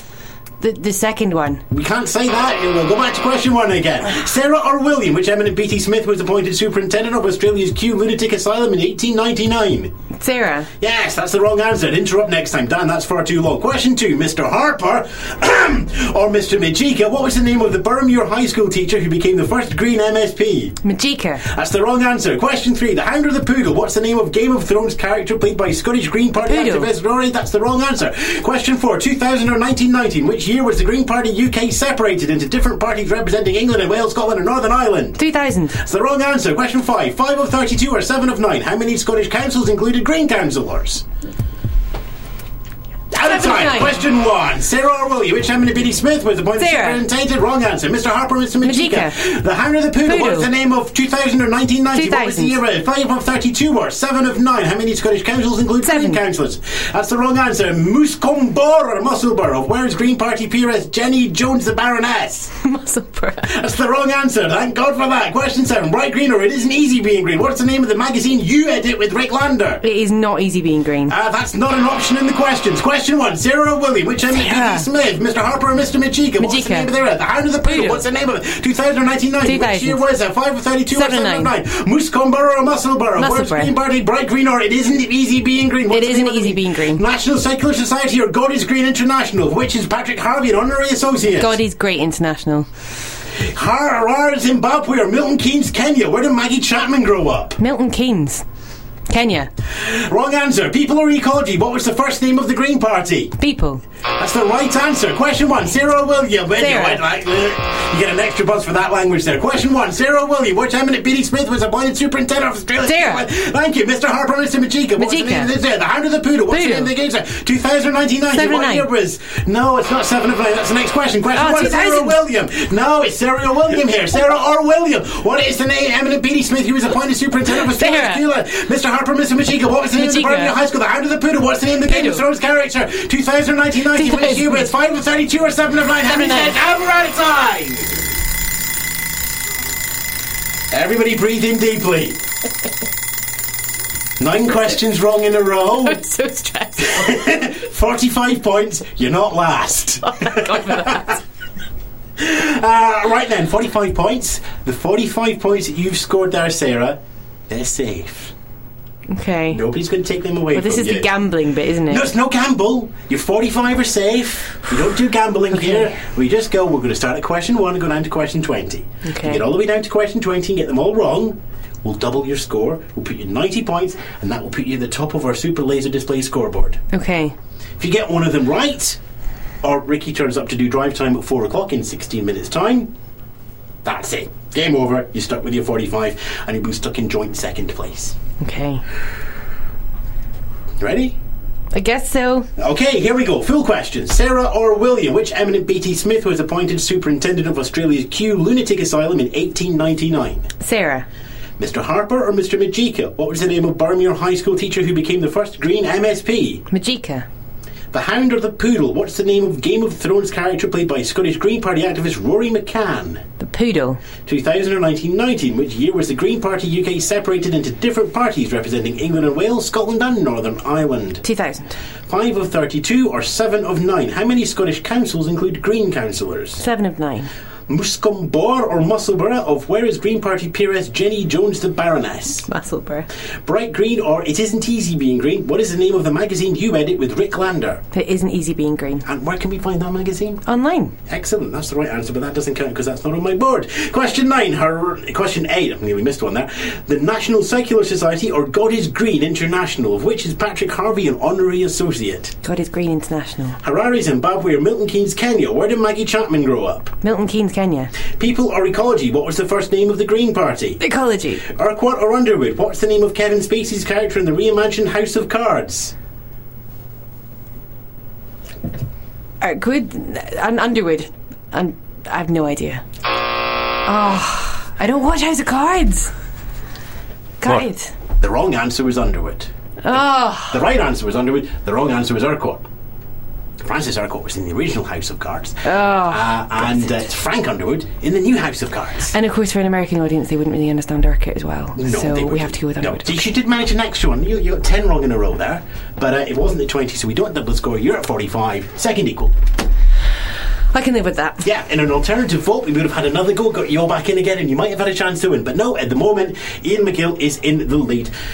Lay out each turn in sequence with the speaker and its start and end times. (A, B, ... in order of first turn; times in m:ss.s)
0:00.6-0:01.6 A
0:01.7-0:09.9 B
0:10.2-0:10.7 A
0:10.8-0:20.8 B
0:20.8-0:21.5 A
0:21.4-0:35.2 B
0:26.4-0:26.9 A
0:35.2-0:35.8 A
0:35.7-0:41.0 B
0:43.1-1:02.5 B
0:43.2-0:44.0 A
0:46.6-0:47.0 A
0:48.6-0:49.2 A
0:50.0-0:50.5 A
0:51.9-0:52.6 A
0:55.8-0:56.2 A
1:02.6-1:03.5 A
1:03.4-1:09.8 B
1:09.8-1:11.1 A
1:11.1-1:31.6 B
1:14.3-1:14.9 A
1:16.4-1:16.9 A
1:17.6-1:18.0 A
1:19.4-1:20.0 A
1:20.9-1:21.5 A
1:23.2-1:23.7 A
1:25.9-1:27.0 A
1:31.4-1:32.7 A
1:33.4-1:37.6 B
1:37.6-1:38.4 A
1:39.1-1:39.5 A
1:39.7-1:43.3 B
1:43.4-1:43.8 A
1:44.2-2:18.1 B
1:46.6-1:47.0 A
1:52.8-1:53.3 A
1:55.0-1:55.5 A
1:56.5-1:56.9 A
1:58.3-1:58.9 A
2:01.3-2:02.2 A
2:07.5-2:08.3 A
2:09.9-2:10.6 A
2:11.8-2:12.2 A
2:13.9-2:14.7 A
2:16.0-2:16.6 A
2:20.7-2:22.2 B
2:24.2-2:26.0 B
2:25.8-2:27.2 A
2:26.8-2:31.2 B
2:30.1-2:31.2 A
2:32.2-2:38.3 B
2:39.1-2:39.6 A
2:39.5-2:41.2 B
2:40.5-2:42.1 A
2:41.9-2:56.8 B
2:45.5-2:45.9 A
2:49.0-2:49.4 A
2:56.9-2:57.4 A
2:57.8-2:59.0 B
2:59.6-3:02.9 B
3:03.8-3:08.2 B
3:08.4-3:08.8 A
3:10.8-3:11.2 B
3:11.7-3:12.5 A
3:12.6-3:20.5 B
3:20.6-3:21.1 A
3:21.6-3:26.6 B
3:26.7-3:27.3 A
3:27.9-3:33.2 B
3:33.4-3:34.0 A
3:34.2-3:41.2 B
3:41.2-3:41.8 A
3:42.1-3:46.6 B
3:46.6-3:47.3 A
3:47.7-3:52.5 B
3:52.5-3:53.1 A
3:53.5-3:57.8 B
3:57.9-3:59.0 A
3:59.0-4:00.4 B
4:00.5-4:00.9 A
4:01.1-4:12.3 B
4:12.4-4:13.6 A
4:13.6-4:17.0 B
4:17.0-4:17.9 A
4:18.1-4:20.8 B
4:20.8-4:21.4 A
4:21.5-4:25.9 B
4:29.4-4:32.8 A
4:33.9-4:36.1 A
4:37.4-4:37.9 A
4:38.2-4:42.6 B
4:39.8-4:40.6 A
4:43.6-4:49.1 B
4:45.6-4:46.9 A
4:49.1-4:53.2 A
4:51.8-4:59.3 B
5:00.7-5:01.4 A
5:01.4-5:08.1 B